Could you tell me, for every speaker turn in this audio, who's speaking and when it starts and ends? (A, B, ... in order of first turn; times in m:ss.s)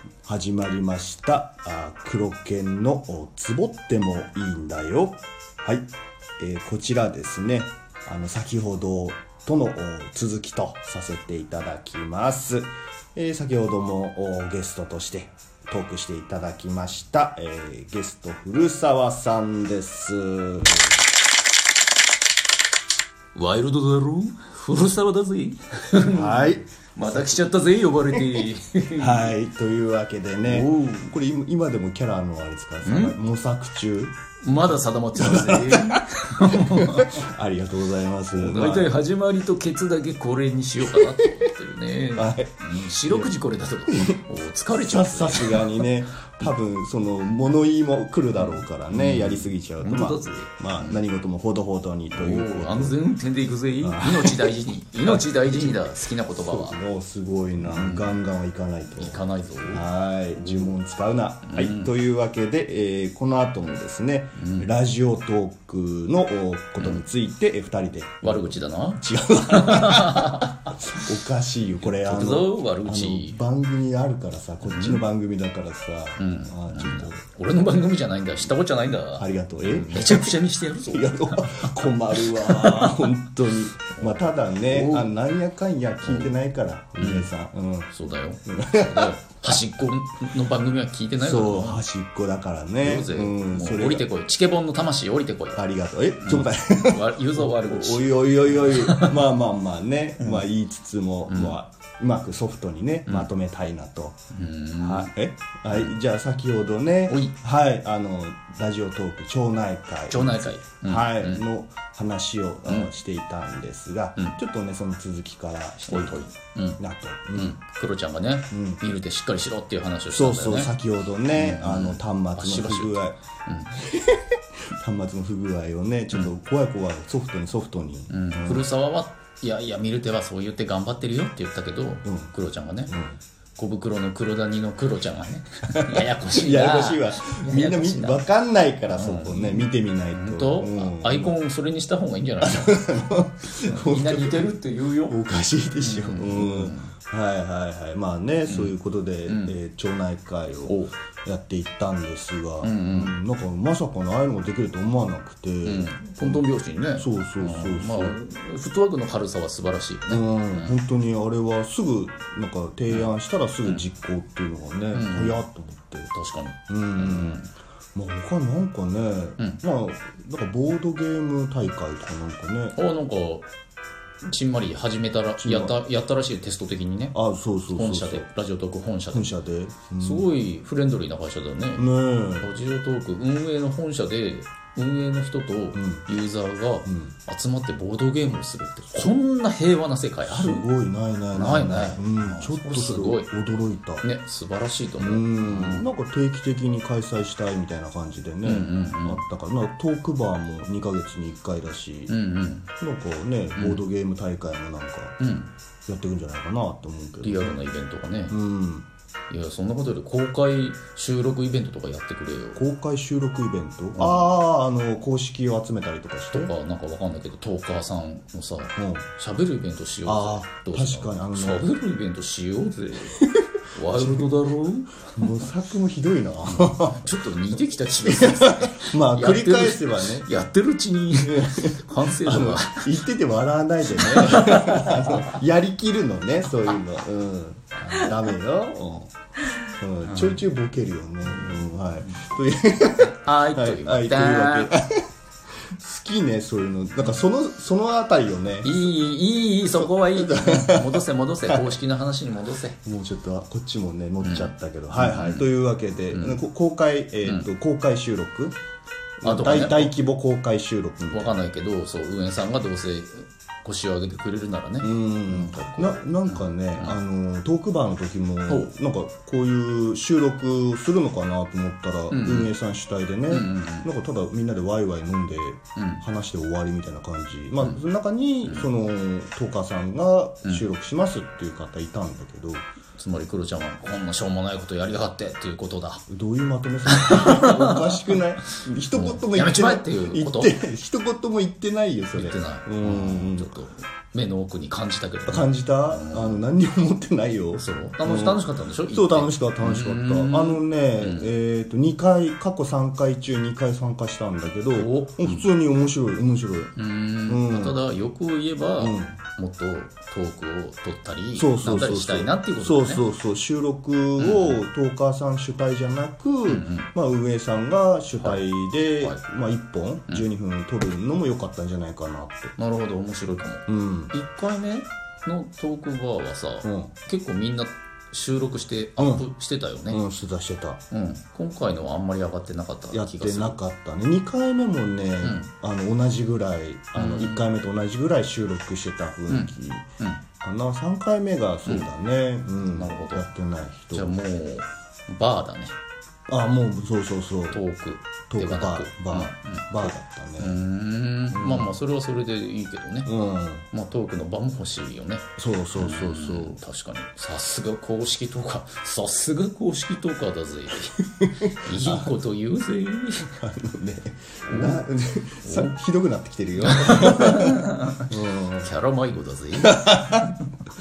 0:00.2-0:05.8 A
0:06.4-0:21.0 A
0:23.3-0:29.3 B
0:26.1-0:27.4 A
0:28.1-0:28.5 A
0:29.0-0:34.1 A
0:30.4-0:31.1 B
0:32.8-0:33.2 B
0:34.4-0:37.3 B
0:35.2-0:36.0 A
0:36.6-0:39.0 A
0:38.3-0:45.9 B
0:40.9-0:41.4 A
0:42.1-0:43.3 A
0:43.9-0:44.2 A
0:44.7-0:53.0 A
0:48.4-0:51.0 B
0:52.1-0:56.8 B
0:53.8-1:17.2 A
0:57.6-0:58.2 B
0:59.0-1:00.8 B
1:01.5-1:01.9 B
1:04.3-1:04.7 B
1:08.2-1:11.0 B
1:11.8-1:13.4 B
1:14.7-1:15.0 B
1:16.2-1:23.1 B
1:19.2-1:27.9 A
1:23.9-1:25.1 B
1:26.0-1:26.3 B
1:27.0-1:27.3 B
1:27.9-1:31.8 B
1:28.5-1:29.6 A
1:31.2-1:34.0 A
1:32.8-1:35.6 B
1:35.5-1:44.2 A
1:36.2-1:39.2 B
1:41.3-1:41.6 B
1:44.3-1:45.1 B
1:44.8-1:56.2 A
1:47.1-1:47.4 B
1:50.1-1:51.4 B
1:55.8-1:56.8 B
1:56.8-1:57.6 A
1:57.3-2:00.7 B
1:58.5-1:58.8 A
2:00.1-2:03.2 A
2:01.3-2:03.8 B
2:03.8-2:08.7 A
2:08.1-2:13.0 B
2:12.0-2:12.3 A
2:12.9-2:13.2 A
2:13.6-2:18.2 B
2:15.8-2:21.4 A
2:18.9-2:25.2 B
2:22.4-2:38.2 A
2:25.8-2:26.9 B
2:28.5-2:28.7 B
2:29.2-2:29.5 B
2:30.7-2:30.9 B
2:32.6-2:33.2 B
2:35.6-2:40.8 B
2:40.1-2:46.1 A
2:44.9-2:45.4 B
2:46.1-2:47.5 B
2:46.7-2:52.8 A
2:52.7-2:53.5 B
2:54.2-2:57.2 B
2:55.4-2:55.8 A
2:57.1-2:58.3 A
2:57.7-2:59.3 B
2:59.1-3:00.3 A
3:00.0-3:10.7 B
3:01.8-3:02.5 A
3:05.7-3:06.0 A
3:06.8-3:07.1 A
3:10.2-3:14.0 A
3:11.3-3:13.3 B
3:14.0-3:15.9 B
3:15.0-3:22.1 A
3:18.4-3:19.2 B
3:22.1-3:22.7 B
3:22.8-3:25.2 A
3:23.6-3:23.8 B
3:25.2-3:25.5 B
3:25.9-3:27.6 A
3:27.2-3:28.4 B
3:28.3-3:28.8 A
3:29.3-3:32.6 B
3:32.5-3:36.5 A
3:33.9-3:34.3 B
3:36.3-3:43.2 B
3:38.8-3:39.0 A
3:40.0-3:41.7 A
3:43.2-3:44.3 A
3:43.7-3:45.4 B
3:45.1-3:47.2 A
3:46.5-3:53.0 B
3:48.0-3:50.3 A
3:51.2-3:59.1 A
3:54.0-3:55.3 B
3:59.8-4:05.0 A
4:00.0-4:00.4 B
4:01.3-4:01.6 B
4:03.1-4:04.7 B
4:05.8-4:08.9 A
4:08.6-4:12.8 B
4:09.7-4:11.8 A
4:12.8-4:18.5 A
4:14.2-4:15.5 B
4:16.1-4:16.4 B
4:19.2-4:21.4 A
4:19.2-4:19.9 B
4:21.1-4:27.0 B
4:24.8-4:42.6 A
4:28.5-4:28.7 B
4:32.1-4:32.5 B
4:33.3-4:33.9 B
4:35.8-4:36.0 B
4:43.0-4:46.0 B
4:46.1-4:53.5 A
4:46.9-4:48.0 B
4:48.9-4:50.6 B
4:52.1-4:56.4 B
4:55.2-5:06.7 A
4:57.6-5:01.3 B
5:04.7-5:05.4 B
5:06.8-5:13.0 B
5:07.3-5:07.8 A
5:08.8-5:09.2 A
5:11.3-5:22.5 A
5:14.2-5:14.6 B
5:16.4-5:16.9 B
5:22.6-5:30.0 B
5:23.7-5:24.1 A
5:26.6-5:26.9 A
5:29.0-5:29.3 A
5:29.9-5:30.8 A
5:30.9-5:33.6 B
5:32.9-5:39.8 A
5:35.2-5:35.5 B
5:37.0-5:37.5 B
5:39.3-5:40.2 B
5:40.4-5:44.2 A
5:42.6-5:43.3 B
5:43.9-5:45.7 B
5:46.3-5:47.6 A
5:47.5-5:53.1 B
5:48.3-5:50.6 A
5:51.3-5:51.7 A
5:53.0-5:53.6 A
5:53.7-6:03.4 B
5:55.4-5:56.6 A
6:01.2-6:02.1 A
6:03.4-6:08.7 A
6:04.4-6:04.9 B
6:05.4-6:05.7 B
6:06.6-6:10.4 B
6:09.6-6:10.3 A